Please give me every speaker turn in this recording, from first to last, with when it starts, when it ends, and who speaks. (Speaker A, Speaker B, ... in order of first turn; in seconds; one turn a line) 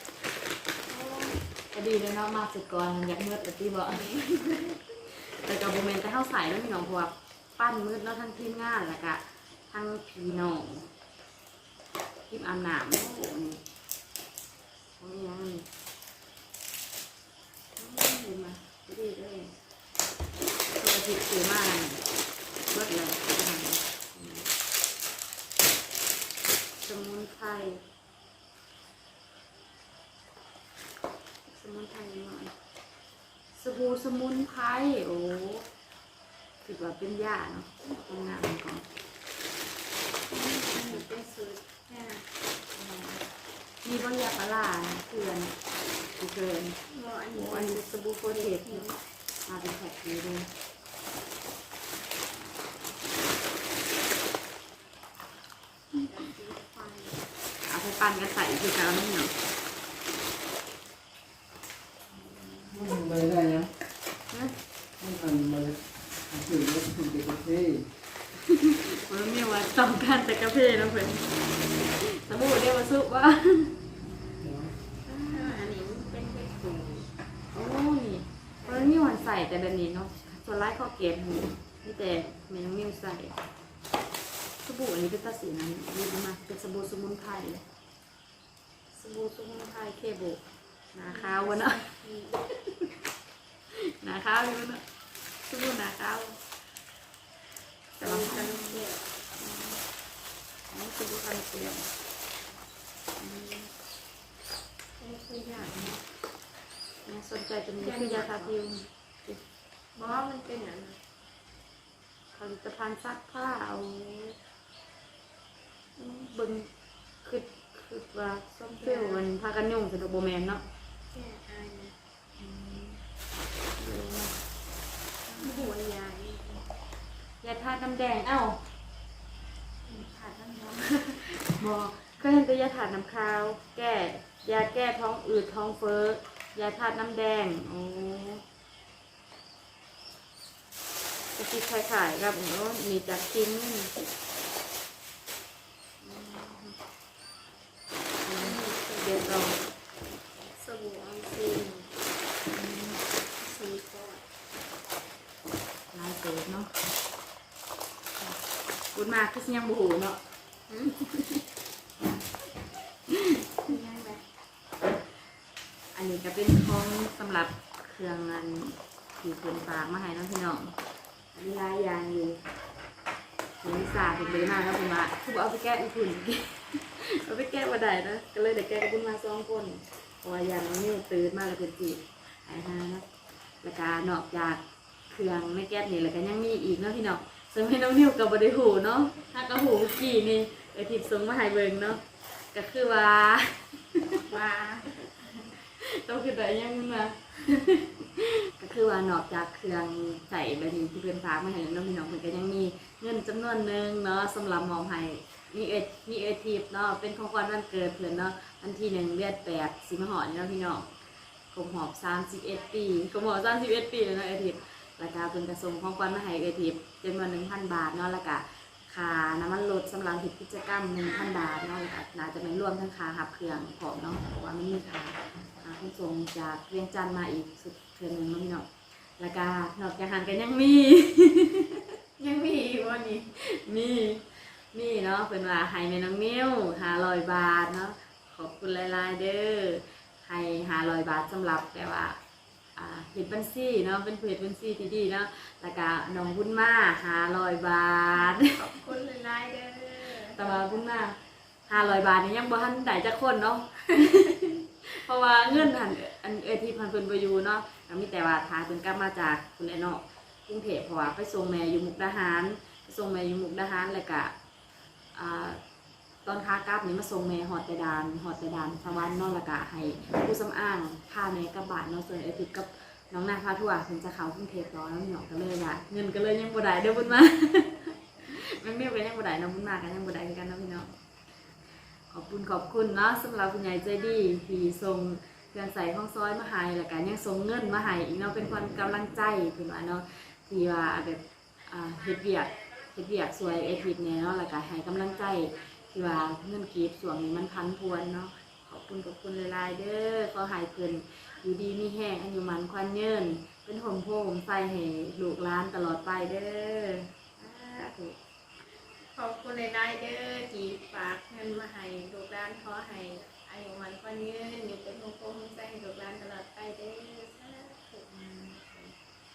Speaker A: 0.9-4.2
Speaker B: 3.9-4.9
Speaker A: 5.1-10.9
Speaker A: 12.3-13.6
Speaker A: 15.0-15.7
Speaker A: 17.8-19.5
Speaker A: 20.8-22.1
Speaker A: 22.6-24.5
Speaker A: 26.8-27.8
Speaker A: 31.5-32.5
Speaker A: 33.5-35.7
Speaker A: 36.6-38.9
Speaker B: 40.3-42.3
Speaker A: 40.7-41.1
Speaker A: 42.8-43.2
Speaker A: 43.8-45.6
Speaker A: 46.2-46.8
Speaker B: 46.9-49.0
Speaker A: 47.3-48.9
Speaker A: 49.5-50.5
Speaker B: 56.0-57.2
Speaker A: 57.6-59.4
Speaker A: 62.2-62.8
Speaker C: 62.7-63.7
Speaker C: 65.0-67.9
Speaker A: 68.4-73.8
Speaker C: 74.4-74.8
Speaker A: 75.0-75.8
Speaker B: 75.3-77.1
Speaker A: 77.5-83.4
Speaker B: 78.6-79.0
Speaker A: 84.6-87.7
Speaker A: 88.9-90.4
Speaker A: 90.9-91.8
Speaker B: 91.0-92.5
Speaker A: 93.7-94.8
Speaker A: 95.5-96.4
Speaker B: 98.0-99.1
Speaker A: 98.0-98.8
Speaker A: 99.4-99.8
Speaker A: 100.7-101.9
Speaker A: 103.2-103.7
Speaker B: 105.0-106.0
Speaker A: 107.0-109.4
Speaker B: 107.8-108.5
Speaker B: 110.0-111.0
Speaker A: 112.3-114.3
Speaker A: 116.0-116.7
Speaker A: 117.2-120.6
Speaker B: 118.8-119.3
Speaker B: 121.1-122.0
Speaker A: 122.4-123.0
Speaker A: 123.8-124.4
Speaker B: 125.3-126.7
Speaker A: 125.4-125.7
Speaker A: 127.4-128.7
Speaker B: 129.8-131.2
Speaker A: 131.2-138.4
Speaker A: 141.3-143.9
Speaker A: 146.0-146.8
Speaker A: 148.2-149.6
Speaker B: 148.4-149.4
Speaker B: 150.5-151.9
Speaker A: 152.5-153.0
Speaker B: 153.3-154.2
Speaker A: 155.9-156.7
Speaker A: 158.9-161.2
Speaker A: 163.1-163.4
Speaker B: 163.6-164.2
Speaker A: 165.9-170.8
Speaker A: 171.3-172.4
Speaker A: 173.6-183.1
Speaker A: 183.6-192.0
Speaker A: 192.5-194.3
Speaker B: 194.2-195.3
Speaker A: 195.6-210.9
Speaker A: 211.5-231.9
Speaker B: 232.2-233.3
Speaker A: 233.3-242.2
Speaker A: 242.8-248.6
Speaker B: 248.1-250.7
Speaker A: 250.2-264.3
Speaker B: 251.7-252.1
Speaker A: 265.1-265.6
Speaker A: 266.2-280.9
Speaker A: 282.1-308.2
Speaker B: 309.1-318.9